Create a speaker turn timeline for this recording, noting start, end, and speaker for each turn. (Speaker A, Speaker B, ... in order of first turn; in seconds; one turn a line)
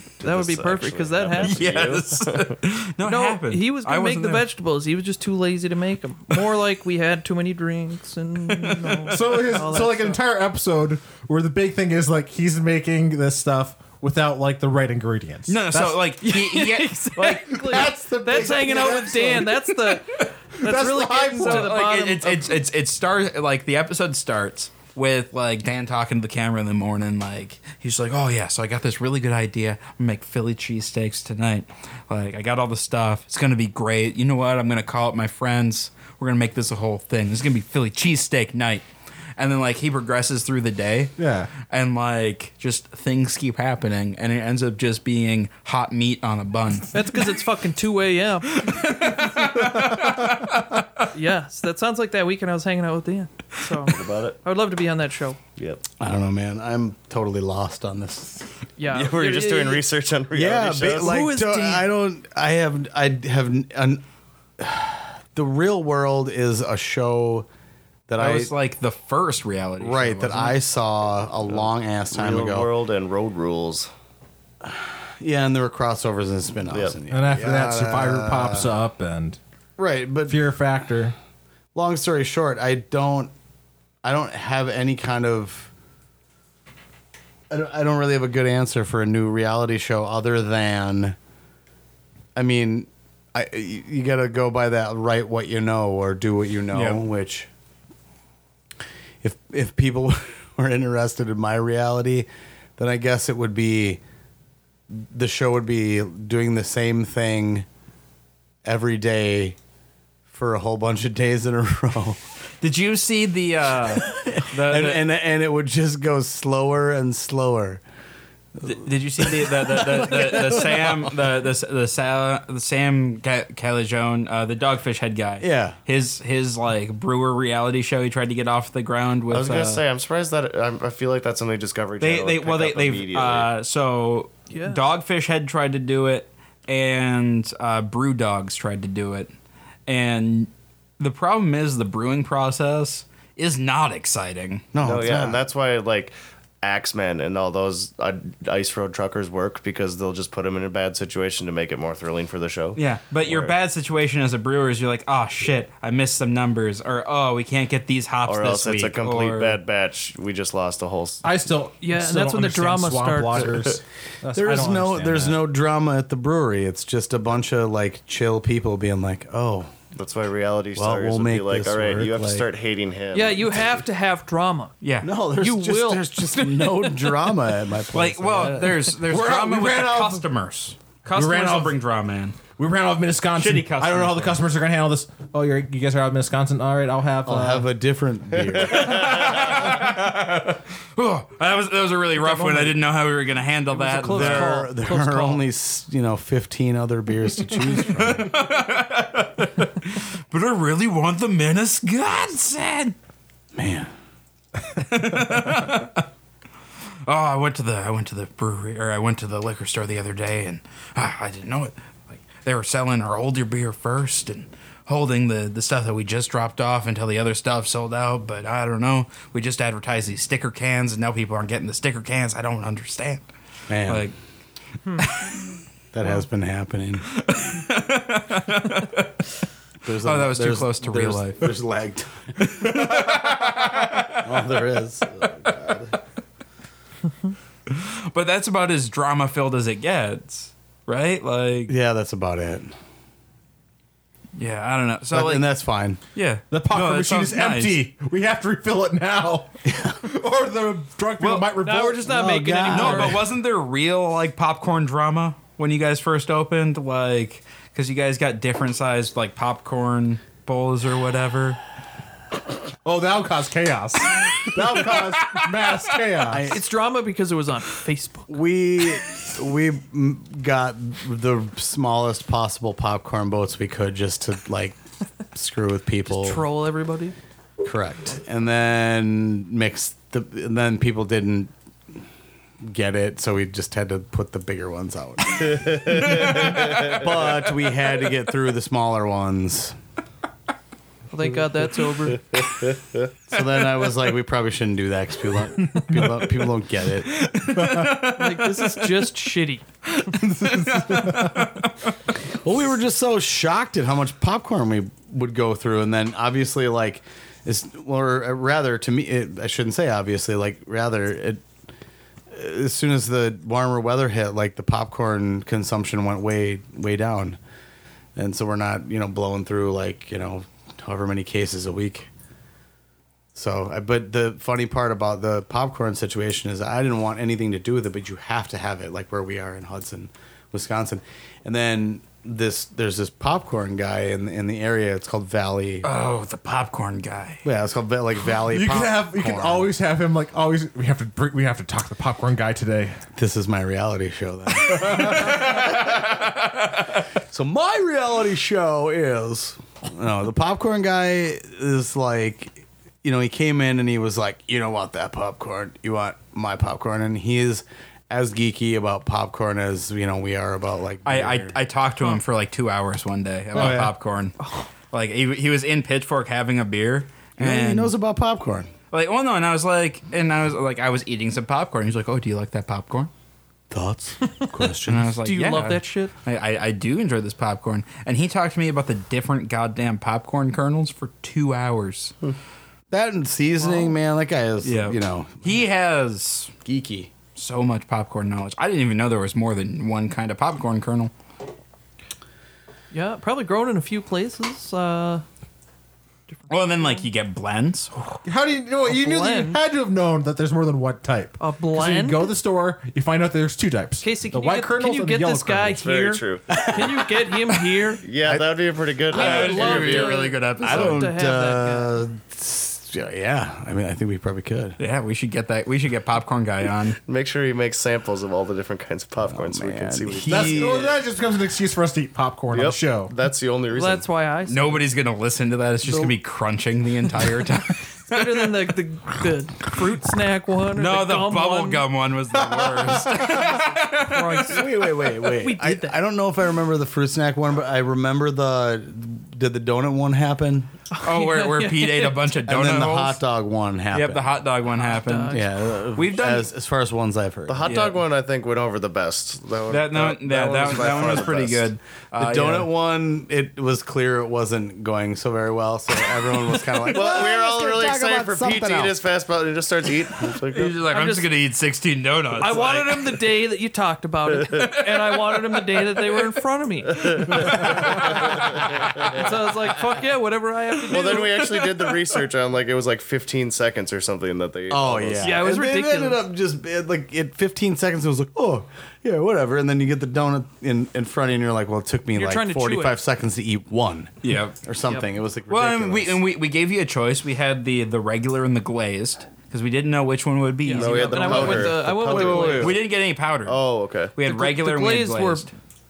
Speaker A: 0.2-2.0
Speaker B: 0.2-2.6
Speaker C: 1.4-4.5
Speaker A: 3.0-10.2
Speaker C: 8.5-9.1
Speaker D: 9.1-16.0
Speaker C: 15.5-17.8
Speaker A: 16.2-22.6
Speaker D: 17.5-19.7
Speaker D: 20.6-21.7
Speaker C: 21.4-38.9
Speaker C: 39.4-47.0
Speaker D: 41.2-41.5
Speaker A: 46.9-48.8
Speaker C: 48.5-51.1
Speaker D: 49.6-50.4
Speaker A: 51.1-55.4
Speaker B: 53.9-54.4
Speaker B: 55.6-55.8
Speaker E: 56.0-58.5
Speaker A: 58.8-59.8
Speaker B: 58.9-61.2
Speaker E: 60.3-64.0
Speaker A: 61.0-61.9
Speaker E: 64.6-67.5
Speaker E: 68.1-68.5
Speaker C: 68.2-70.6
Speaker E: 69.8-72.7
Speaker B: 71.6-73.9
Speaker E: 74.6-78.7
Speaker B: 76.7-77.0
Speaker D: 77.1-79.4
Speaker E: 79.8-80.4
Speaker D: 80.3-81.2
Speaker E: 81.8-83.3
Speaker E: 84.0-85.7
Speaker E: 87.5-91.2
Speaker E: 92.3-97.5
Speaker C: 96.7-97.0
Speaker E: 99.2-104.0
Speaker E: 104.9-107.7
Speaker E: 108.6-109.6
Speaker E: 110.3-112.2
Speaker C: 112.6-115.0
Speaker E: 113.9-117.8
Speaker C: 118.6-129.8
Speaker E: 119.2-121.1
Speaker E: 125.4-125.8
Speaker B: 129.3-133.5
Speaker C: 132.0-139.3
Speaker A: 134.5-134.8
Speaker C: 139.9-144.6
Speaker E: 144.7-145.4
Speaker B: 144.8-153.5
Speaker C: 152.8-159.6
Speaker B: 158.3-161.2
Speaker D: 161.2-165.4
Speaker A: 161.8-163.6
Speaker E: 164.3-169.7
Speaker B: 169.9-173.6
Speaker E: 170.8-172.5
Speaker A: 173.1-174.8
Speaker C: 174.8-175.1
Speaker E: 175.0-178.9
Speaker A: 175.3-177.3
Speaker C: 177.9-182.4
Speaker D: 179.0-180.2
Speaker D: 181.1-181.8
Speaker D: 182.6-187.7
Speaker C: 183.4-184.4
Speaker E: 187.2-189.0
Speaker C: 188.7-194.6
Speaker A: 192.2-192.8
Speaker A: 193.7-195.4
Speaker E: 194.1-198.3
Speaker C: 197.8-202.9
Speaker E: 203.5-203.9
Speaker C: 204.8-206.1
Speaker C: 207.1-223.3
Speaker E: 223.7-224.1
Speaker C: 223.9-224.2
Speaker A: 224.9-225.2
Speaker C: 225.0-225.5
Speaker E: 225.9-227.1
Speaker C: 227.1-229.2
Speaker E: 229.8-233.3
Speaker C: 230.0-231.5
Speaker C: 232.5-234.2
Speaker E: 234.1-235.9
Speaker C: 237.7-241.8
Speaker E: 241.7-242.7
Speaker C: 244.4-245.5
Speaker E: 245.1-246.0
Speaker C: 246.2-247.8
Speaker D: 246.5-252.2
Speaker E: 249.7-250.0
Speaker C: 251.2-251.5
Speaker A: 251.6-253.2
Speaker E: 252.0-253.2
Speaker C: 252.7-261.6
Speaker D: 262.9-266.5
Speaker E: 266.2-266.6
Speaker A: 266.4-268.3
Speaker E: 268.3-274.8
Speaker E: 275.3-276.5
Speaker A: 276.1-277.1
Speaker E: 277.6-281.5
Speaker E: 282.6-289.8
Speaker B: 285.5-287.1
Speaker A: 291.1-292.4
Speaker B: 292.6-293.1
Speaker E: 293.3-297.2
Speaker C: 297.1-299.1
Speaker D: 297.6-298.0
Speaker A: 298.1-299.7
Speaker C: 300.0-302.0
Speaker D: 300.5-301.3
Speaker E: 302.3-311.4
Speaker E: 312.3-317.4
Speaker E: 318.2-322.1
Speaker E: 323.3-335.9
Speaker C: 335.8-337.5
Speaker E: 337.4-339.7
Speaker D: 338.5-343.0
Speaker E: 343.1-346.2
Speaker C: 344.7-346.9
Speaker E: 347.2-361.6
Speaker C: 361.1-364.4
Speaker D: 363.6-363.9
Speaker E: 363.6-363.9
Speaker A: 364.4-364.7
Speaker C: 364.9-367.9
Speaker E: 367.4-368.7
Speaker C: 368.9-373.1
Speaker E: 373.7-375.1
Speaker C: 374.9-382.1
Speaker A: 375.2-376.1
Speaker E: 382.9-385.7
Speaker A: 383.6-383.9
Speaker C: 384.6-386.6
Speaker E: 386.6-387.1
Speaker C: 387.4-391.1
Speaker A: 392.9-395.2
Speaker A: 396.3-397.0
Speaker C: 396.5-398.0
Speaker D: 398.2-405.9
Speaker A: 398.9-399.6
Speaker A: 401.4-402.3
Speaker A: 404.0-408.0
Speaker B: 405.8-406.7
Speaker E: 406.5-407.4
Speaker B: 408.0-410.4
Speaker E: 408.2-408.5
Speaker A: 409.1-411.9
Speaker C: 409.1-411.2
Speaker E: 410.6-414.8
Speaker C: 414.8-417.0
Speaker B: 417.1-420.9
Speaker E: 419.2-421.0
Speaker D: 420.3-423.1
Speaker B: 422.5-424.1
Speaker A: 423.7-424.9
Speaker C: 424.4-428.5
Speaker A: 428.1-431.9
Speaker C: 430.8-434.7
Speaker A: 433.2-435.9
Speaker E: 434.5-440.7
Speaker A: 440.9-442.2
Speaker C: 441.0-443.2
Speaker E: 442.5-444.3
Speaker C: 443.9-446.5
Speaker A: 444.7-445.8
Speaker E: 445.3-447.7
Speaker B: 447.5-451.7
Speaker C: 447.6-448.0
Speaker C: 449.7-452.7
Speaker E: 452.2-459.0
Speaker B: 456.9-460.8
Speaker C: 460.5-463.3
Speaker A: 460.8-461.4
Speaker A: 462.4-471.5
Speaker B: 466.9-469.2
Speaker C: 467.6-467.9
Speaker B: 470.9-475.4
Speaker E: 474.7-486.2
Speaker A: 475.2-476.2
Speaker A: 482.1-483.0
Speaker C: 484.2-484.6
Speaker C: 485.5-493.6
Speaker A: 490.6-492.8
Speaker B: 490.7-492.8
Speaker E: 491.2-492.8
Speaker B: 493.4-494.1
Speaker C: 494.1-495.5
Speaker A: 494.2-495.5